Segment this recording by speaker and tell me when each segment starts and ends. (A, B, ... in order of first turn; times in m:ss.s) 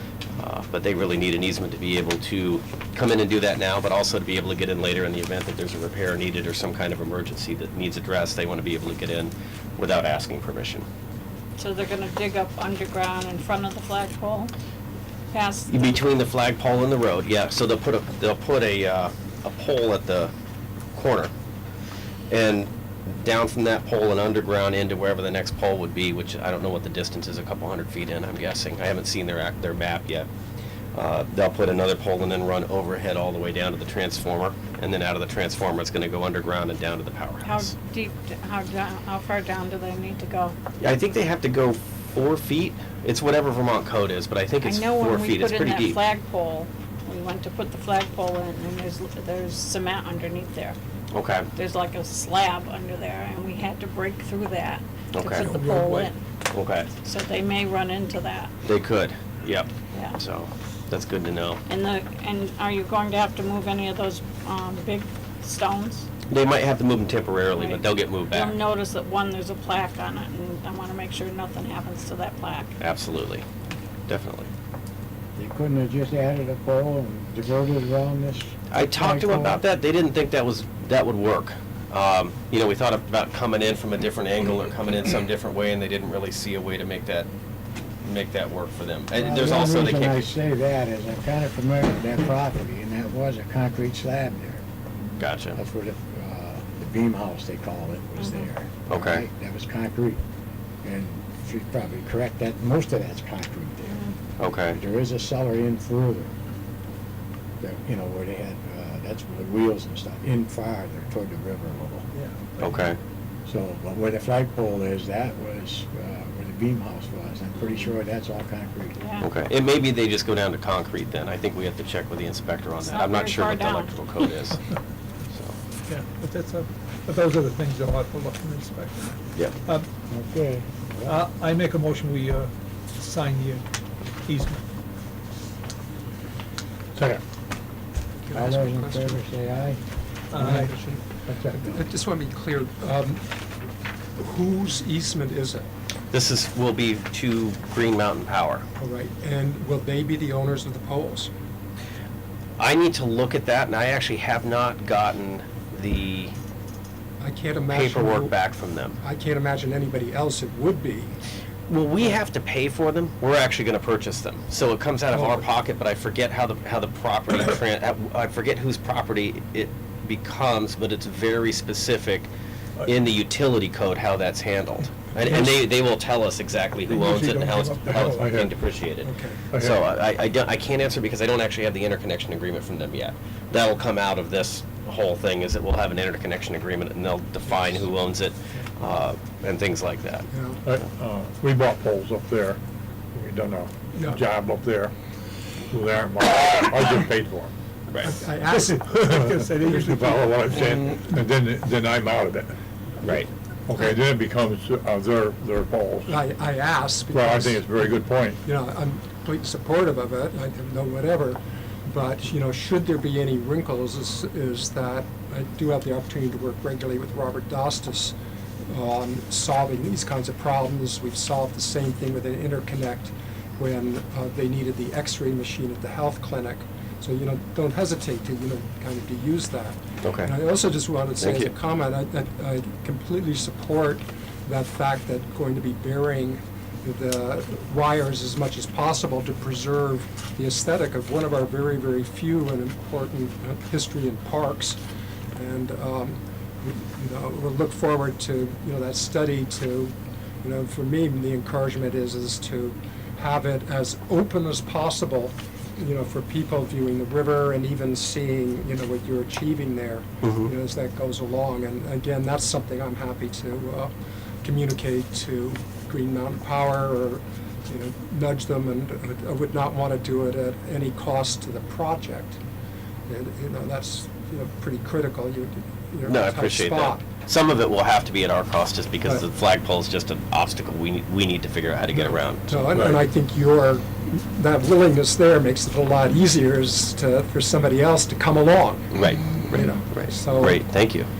0:00.4-0:10.8 A
0:11.6-0:14.5 B
0:15.3-0:15.9 B
0:15.7-0:20.3 A
0:20.9-0:21.3 A
0:22.3-0:30.3 A
0:30.9-0:37.7 A
0:37.4-0:40.6 B
0:40.8-0:46.0 A
0:44.6-0:50.8 B
0:51.1-0:51.5 A
0:51.5-0:56.2 B
0:55.1-0:55.5 A
0:55.4-0:56.1 C
0:56.5-0:56.9 A
0:57.0-0:58.5 B
0:58.6-1:01.6 A
1:01.7-1:06.1 B
1:06.3-1:08.6 A
1:07.6-1:12.7 B
1:12.8-1:13.4 A
1:14.1-1:14.5 A
1:15.4-1:19.6 D
1:18.7-1:27.3 A
1:28.0-1:30.3 A
1:29.1-1:34.6 D
1:35.2-1:35.6 A
1:35.6-1:40.2 D
1:38.2-1:38.5 B
1:38.9-1:39.2 A
1:40.8-1:44.0 D
1:43.9-1:44.1 B
1:44.4-1:44.8 A
1:44.7-1:46.3 D
1:47.6-1:52.1 D
1:52.2-1:52.5 E
1:52.6-1:53.0 A
1:53.4-1:59.0 D
1:59.0-1:59.2 B
1:59.2-2:04.6 A
2:02.8-2:03.9 B
2:05.3-2:05.6 A
2:05.9-2:09.9 E
2:10.1-2:11.2 D
2:11.0-2:13.7 E
2:14.2-2:14.6 E
2:17.0-2:17.2 F
2:18.2-2:19.2 C
2:18.3-2:19.8 D
2:20.3-2:20.7 E
2:20.3-2:23.2 C
2:21.3-2:21.8 D
2:24.2-2:25.7 C
2:26.1-2:28.6 A
2:28.8-2:31.3 C
2:32.6-2:36.4 A
2:37.2-2:38.3 C
2:37.7-2:39.0 A
2:39.0-2:41.2 C
2:41.7-2:52.3 A
2:45.1-2:45.4 C
2:52.8-3:10.3 A
2:56.8-2:58.3 E
2:57.8-2:58.6 F
2:59.0-2:59.4 C
2:59.5-2:59.8 F
3:10.3-3:10.6 C
3:10.6-3:12.6 F
3:13.1-3:14.9 F
3:13.9-3:14.2 C
3:15.7-3:17.5 F
3:18.0-3:19.9 C
3:18.5-3:21.0 E
3:18.9-3:22.5 F
3:23.0-3:23.3 A
3:23.7-3:26.2 F
3:26.1-4:04.8 C
3:27.1-3:28.4 F
3:50.0-3:50.3 A
3:51.2-3:51.5 A
4:05.3-4:23.9 C
4:20.2-4:20.5 A
4:24.4-4:32.4 C
4:33.1-4:37.0 C
4:36.0-4:42.6 A
4:41.9-4:50.7 C
4:42.7-4:43.0 F
4:48.9-4:51.1 A